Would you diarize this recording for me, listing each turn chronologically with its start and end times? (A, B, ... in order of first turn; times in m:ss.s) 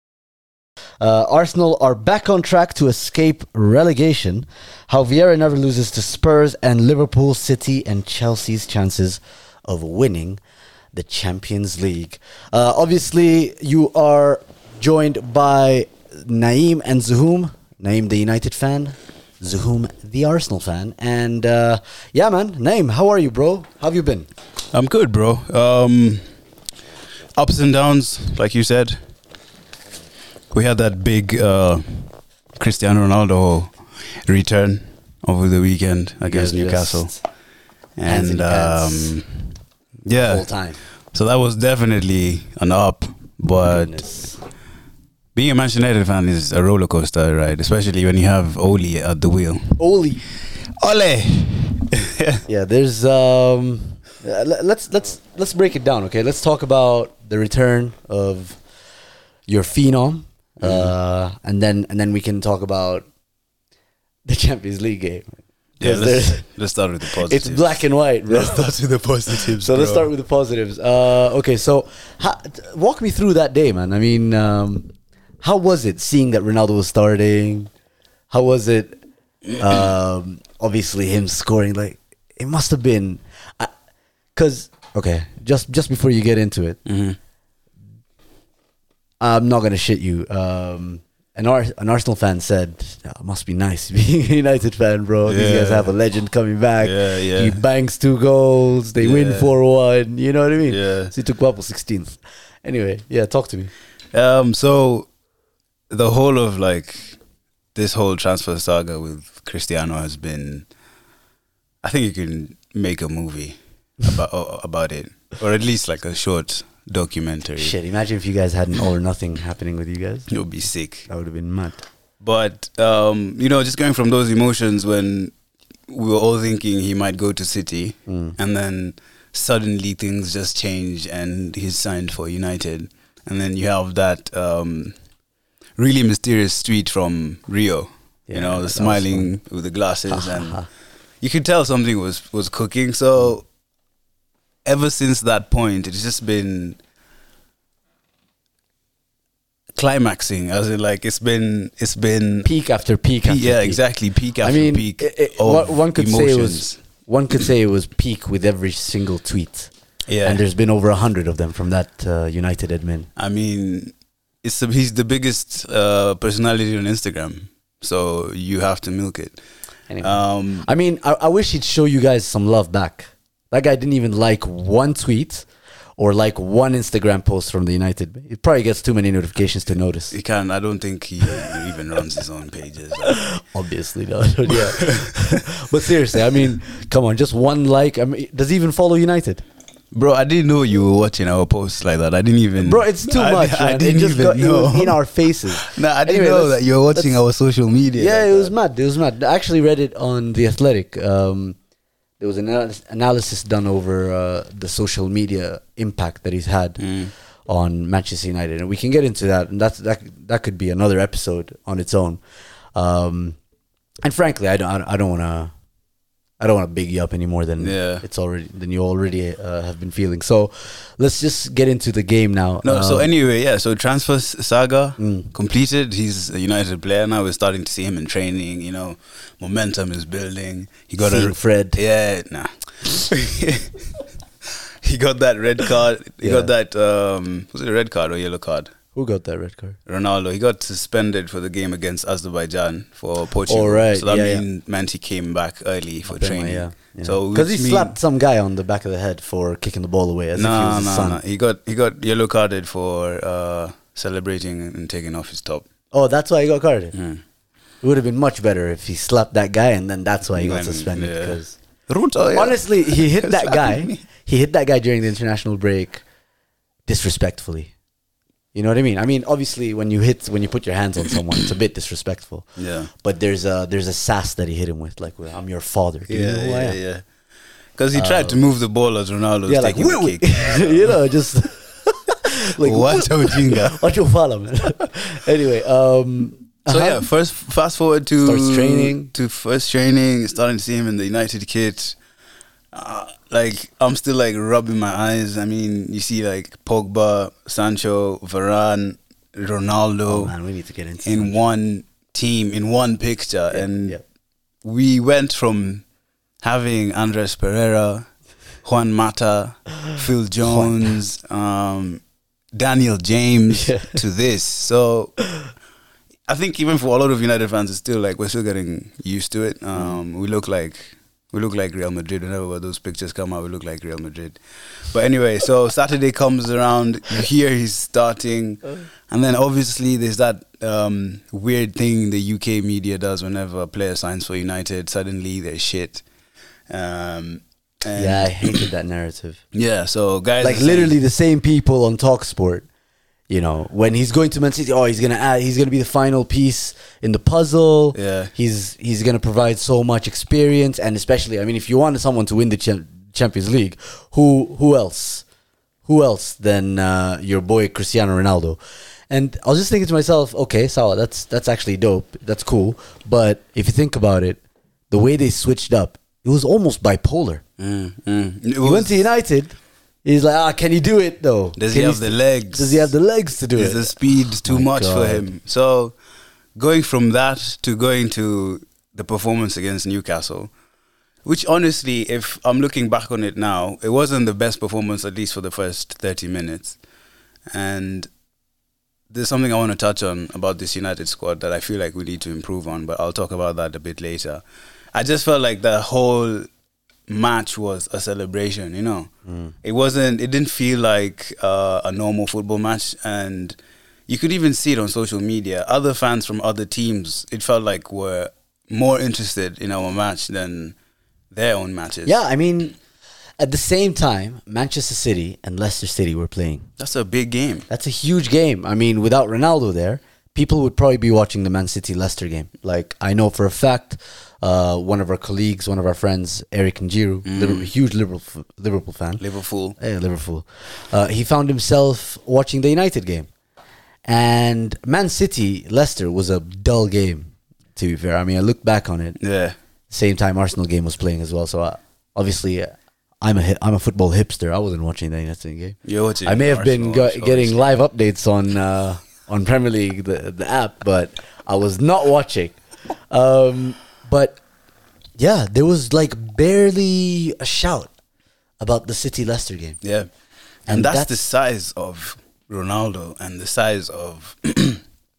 0:01.0-0:10.4 A
0:10.9-0:24.3 A
0:24.7-0:26.2 B
0:27.4-0:29.0 B
0:30.5-0:33.7 B
0:34.2-0:37.1 B
0:36.2-0:37.2 A
0:38.0-0:39.5 B
0:38.0-0:39.2 A
0:40.0-0:40.4 B
0:40.2-0:40.8 A
0:41.1-0:43.9 B
0:43.6-0:44.4 A
0:45.3-0:49.8 B
0:49.8-0:50.2 A
0:50.8-0:52.4 B
0:52.5-0:58.6 A
0:59.5-1:03.0 A
1:00.6-1:00.9 B
1:04.2-1:06.4 A
1:05.8-1:10.1 B
1:07.1-1:08.7 A
1:09.3-1:14.9 A
1:15.4-1:17.7 A
1:18.3-1:19.0 A
1:19.6-1:23.7 A
1:24.3-1:26.8 A
1:26.8-1:27.2 B
1:29.2-1:43.7 A
1:35.3-1:35.9 B
1:36.8-1:37.6 B
1:39.0-1:39.6 B
1:40.7-1:41.1 B
1:44.1-1:45.1 B
1:45.9-1:47.2 B
1:47.7-1:50.7 B
1:51.8-1:57.7 B
1:57.6-2:00.3 A
2:00.3-2:01.1 B
2:01.1-2:01.8 A
2:02.2-2:05.3 B
2:05.9-2:14.9 B
2:08.1-2:08.4 A
2:15.8-2:20.6 B
2:18.3-2:19.3 A
2:20.1-2:20.7 A
2:21.2-2:23.4 B
2:24.6-2:26.8 B
2:29.7-2:32.5 B
2:32.4-2:33.8 A
2:33.2-2:36.8 B
2:34.4-2:39.7 A
2:40.1-2:40.4 B
2:40.2-2:43.1 A
2:43.2-2:49.4 B
2:49.9-2:55.4 A
2:50.0-2:50.7 B
2:56.0-3:00.1 A
3:00.1-3:03.2 B
3:03.0-3:09.4 A
3:04.5-3:05.4 B
3:09.9-3:15.0 B
3:12.6-3:17.2 A
3:15.5-3:18.5 B
3:18.0-3:21.6 A
3:22.2-3:26.9 A
3:26.8-3:27.1 B
3:27.5-3:32.2 A
3:32.7-3:33.4 A
3:34.0-3:35.5 A
3:36.4-3:43.1 A
3:37.6-3:38.0 B
3:42.6-3:53.9 B
3:45.0-3:45.3 A
3:51.0-3:51.8 A
3:54.8-3:58.7 B
3:56.2-3:56.5 A
3:58.9-3:59.8 A
3:59.9-4:08.0 B
4:03.5-4:04.4 A
4:06.0-4:11.2 A
4:10.4-4:15.6 B
4:15.9-4:16.9 A
4:16.9-4:17.2 B
4:17.8-4:21.6 A
4:20.3-4:24.0 B
4:22.3-4:26.0 A
4:26.9-4:27.7 A
4:28.5-4:32.5 A
4:32.6-4:32.9 B
4:33.0-4:36.8 A
4:36.1-4:37.0 B
4:37.8-4:41.0 B
4:37.9-4:38.4 A
4:39.5-4:47.0 A
4:42.6-4:43.8 B
4:46.7-4:52.0 B
4:48.2-4:49.1 A
4:52.7-5:00.3 B
5:00.1-5:01.4 A
5:01.0-5:04.0 B
5:03.6-5:04.0 A
5:04.6-5:05.8 B
5:06.4-5:08.0 B
5:08.6-5:12.0 B
5:10.4-5:10.9 A
5:12.5-5:15.1 B
5:13.5-5:14.0 A
5:16.3-5:36.0 B
5:36.7-5:38.7 B
5:37.9-5:39.4 A
5:39.5-5:40.9 B
5:40.4-5:42.6 A
5:43.3-5:55.2 A
5:47.9-5:48.3 B
5:55.8-5:58.6 A
5:59.1-6:04.4 A
6:04.9-6:07.4 A
6:07.6-6:09.0 B
6:08.6-6:15.3 A
6:11.6-6:12.9 B
6:13.6-6:15.9 B
6:16.6-6:20.5 B
6:21.2-6:26.8 B
6:27.5-6:28.1 B
6:29.1-6:34.4 B
6:34.9-6:36.5 B
6:37.1-6:39.1 B
6:39.2-6:39.5 A
6:39.6-6:43.6 B
6:44.1-6:50.8 B
6:51.3-6:52.1 B
6:52.0-6:52.8 A
6:53.4-6:56.7 A
6:56.8-6:57.7 B
6:57.7-7:09.2 A
7:07.3-7:07.7 B
7:09.2-7:09.8 B
7:09.8-7:13.3 A
7:14.0-7:19.2 A
7:19.2-7:19.6 B
7:19.9-7:32.6 A
7:25.8-7:27.6 B
7:33.1-7:34.4 A
7:35.2-7:37.9 A
7:38.6-7:39.8 A
7:39.8-7:40.1 B
7:40.7-7:44.8 B
7:40.7-7:41.1 A